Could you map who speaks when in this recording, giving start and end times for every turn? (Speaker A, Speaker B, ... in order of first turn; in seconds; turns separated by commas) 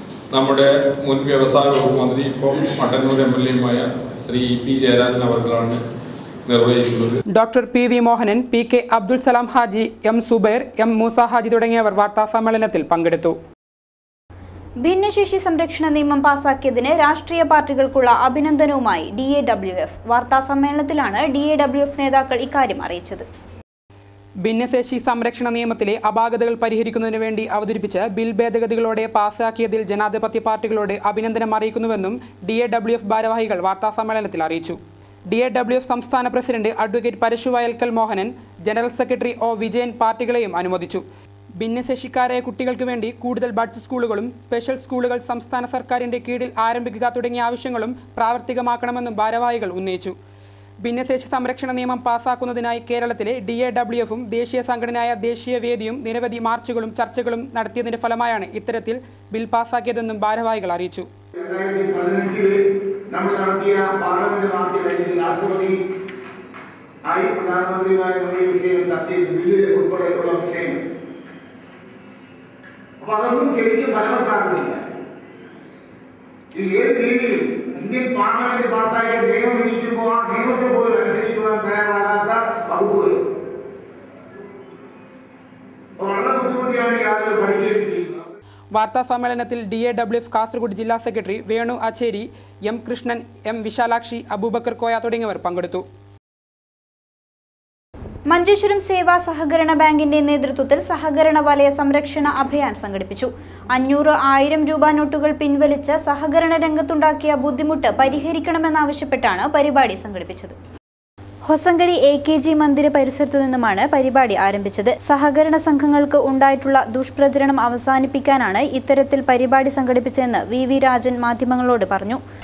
Speaker A: 0.3-5.8, Speaker A: 6.5-7.2, Speaker B: 7.3-13.3, Speaker C: 14.8-23.3, Speaker B: 24.4-34.8, Speaker B: 35.3-41.0, Speaker B: 41.6-50.1, Speaker B: 50.8-61.1, Speaker D: 61.4-62.6, Speaker D: 63.1-65.8, Speaker D: 67.0-70.8, Speaker D: 73.0-74.8, Speaker D: 76.5-83.2, Speaker D: 86.0-88.2, Speaker B: 88.7-95.8, Speaker C: 98.3-110.6, Speaker C: 111.5-122.2